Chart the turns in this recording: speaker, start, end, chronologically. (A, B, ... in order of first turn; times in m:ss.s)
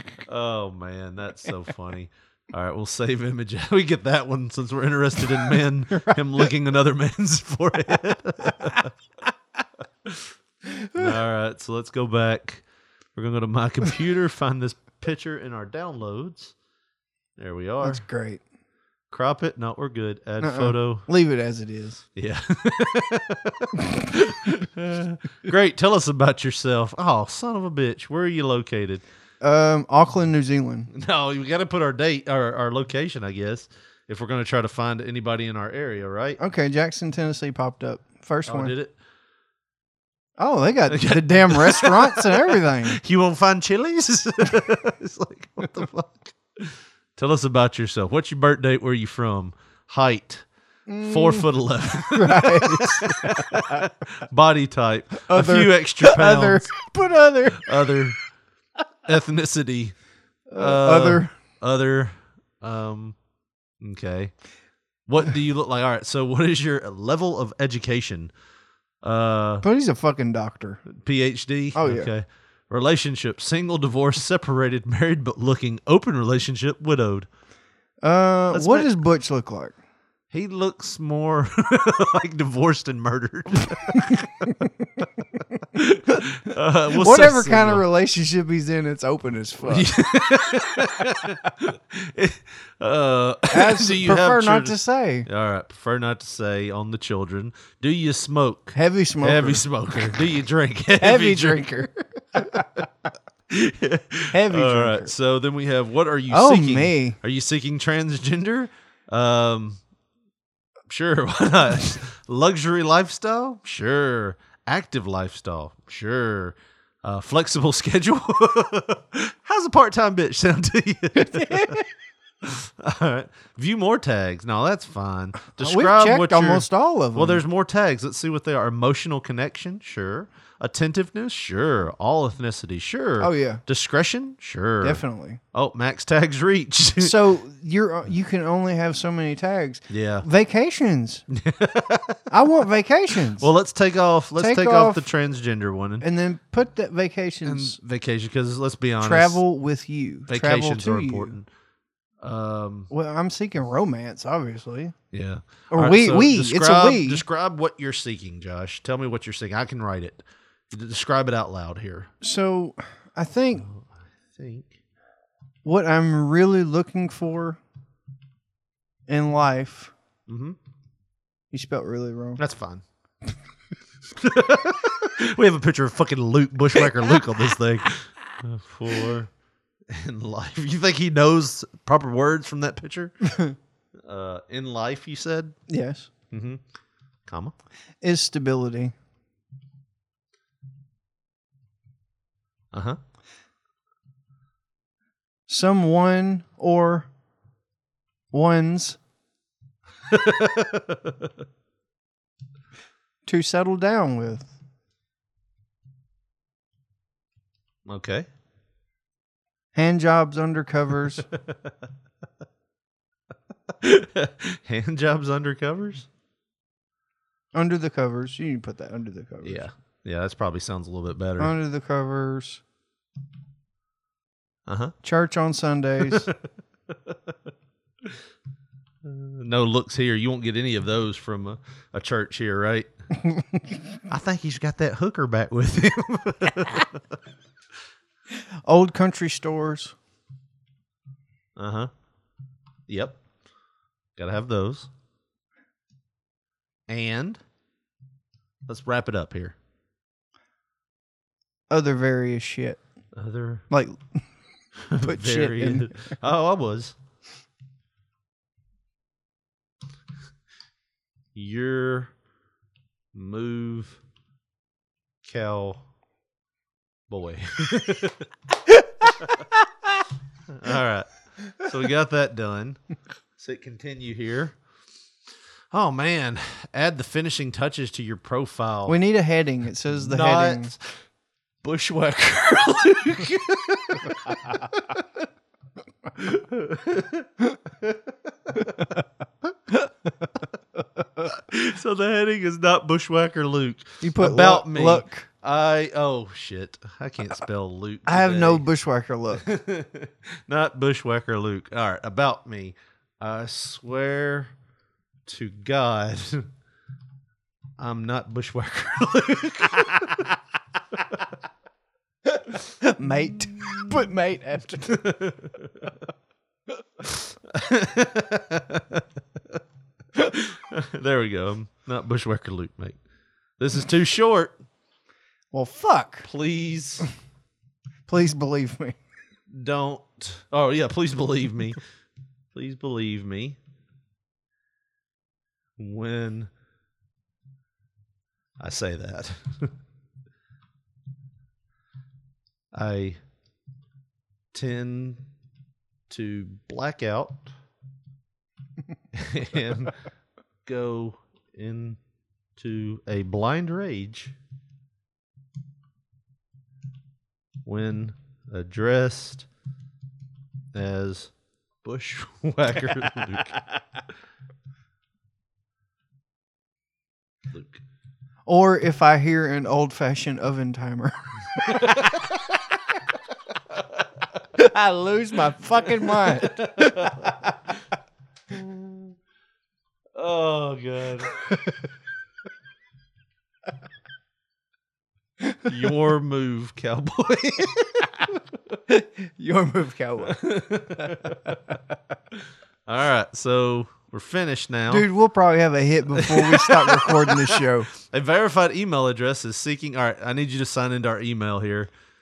0:00.3-0:08.9 A
0:10.7-0:11.1 B
0:11.0-0:12.6 A
0:13.2-0:16.5 A
0:17.4-0:18.0 A
0:17.8-0:18.4 B
0:19.1-0:21.1 A
0:20.4-0:22.0 B
0:22.2-0:29.0 A
0:29.4-0:30.9 B
0:30.9-0:36.4 A
0:36.4-0:38.7 B
0:38.5-0:39.0 A
0:40.4-0:43.0 B
0:40.9-0:50.4 A
0:50.9-0:51.5 B
0:51.0-0:56.8 A
0:52.1-0:53.9 B
0:55.3-0:58.1 B
0:57.6-0:58.2 A
0:59.1-1:00.0 A
1:00.5-1:01.3 B
1:00.6-1:03.2 A
1:03.8-1:04.3 A
1:05.1-1:08.3 A
1:09.0-1:09.6 A
1:09.6-1:10.8 B
1:10.9-1:17.3 A
1:11.8-1:12.1 B
1:18.0-1:19.8 B
1:18.5-1:18.9 A
1:20.3-1:24.3 A
1:25.8-1:27.8 A
1:26.9-1:29.9 B
1:29.6-1:41.7 A
1:33.5-1:35.3 B
1:38.7-1:39.7 B
1:41.0-1:42.6 B
1:43.5-1:49.8 A
1:44.3-1:45.1 B
1:46.3-1:47.2 B
1:50.9-2:01.8 A
2:01.2-2:01.8 B
2:02.4-2:17.2 A
2:05.6-2:07.4 B
2:13.2-2:13.6 B
2:14.8-2:15.4 B
2:17.0-2:21.2 B
2:19.9-2:20.3 A
2:21.3-2:22.2 A
2:22.3-2:23.5 B
2:23.4-2:26.0 A
2:24.4-2:25.1 B
2:26.0-2:27.8 B
2:27.4-2:29.4 A
2:29.0-2:31.4 B
2:30.3-2:31.5 A
2:32.2-2:32.9 A
2:32.9-2:35.0 B
2:35.1-2:42.1 A
2:35.7-2:37.2 B
2:42.2-2:43.7 B
2:43.6-2:44.8 A
2:45.6-2:47.6 B
2:49.1-2:49.9 B
2:50.3-2:50.6 A
2:51.5-2:52.4 B
2:52.4-2:52.8 A
2:54.2-2:59.3 A
2:59.9-3:03.2 A
3:04.0-3:05.6 A
3:05.7-3:06.1 B
3:06.3-3:06.6 A
3:07.3-3:07.6 A
3:08.0-3:09.0 B
3:12.7-3:13.0 A
3:15.5-3:17.1 B
3:18.3-3:19.0 B
3:20.1-3:21.0 A
3:23.2-3:24.5 B
3:27.9-3:28.3 A
3:29.8-3:31.2 B
3:33.8-3:36.1 A
3:37.5-3:39.6 B
3:39.4-3:41.5 A
3:41.4-3:42.6 B
3:44.7-3:45.0 A
3:45.0-3:46.3 B
3:49.0-3:52.9 A
3:54.1-3:56.9 A
3:58.7-4:00.0 B
4:01.6-4:01.9 A
4:02.9-4:03.2 A
4:04.2-4:04.9 A
4:06.9-4:07.4 A
4:08.7-4:09.6 A
4:11.7-4:12.8 B
4:13.2-4:13.6 A
4:13.7-4:14.0 B
4:14.9-4:17.0 A
4:15.0-4:15.9 B
4:21.4-4:22.1 A
4:23.1-4:24.0 A
4:25.2-4:25.8 A
4:27.1-4:28.2 A
4:30.5-4:32.8 A
4:33.4-4:34.6 A
4:35.7-4:39.0 A
4:38.9-4:40.7 B
4:40.0-4:40.8 A
4:41.6-4:44.8 A
4:46.2-4:47.3 A
4:51.3-4:58.6 A
4:54.0-4:55.3 B
4:58.1-4:59.5 B
4:59.3-5:04.5 A
5:05.3-5:06.5 A
5:07.8-5:10.3 A
5:12.8-5:15.0 B
5:14.9-5:15.7 A
5:17.5-5:19.0 A
5:20.2-5:23.0 A
5:23.6-5:24.6 A
5:25.5-5:26.3 B
5:26.2-5:27.1 A
5:28.1-5:29.0 B
5:29.5-5:31.8 A
5:32.5-5:33.6 A
5:35.8-5:36.5 A
5:38.6-5:39.7 A
5:42.7-5:43.2 A
5:44.5-5:45.2 A
5:46.1-5:47.5 A
5:49.1-5:50.0 A
5:50.6-5:52.0 A
5:52.6-5:54.3 A
5:57.6-5:59.5 A
6:00.7-6:01.3 A
6:01.8-6:03.7 A
6:07.5-6:07.8 A
6:08.5-6:11.9 B
6:14.6-6:17.5 B
6:16.2-6:17.5 A
6:18.5-6:19.2 A
6:20.2-6:21.3 A
6:25.7-6:28.8 A
6:28.9-6:30.4 B
6:30.3-6:31.6 A
6:32.9-6:35.1 A
6:34.9-6:37.9 B
6:36.2-6:41.9 A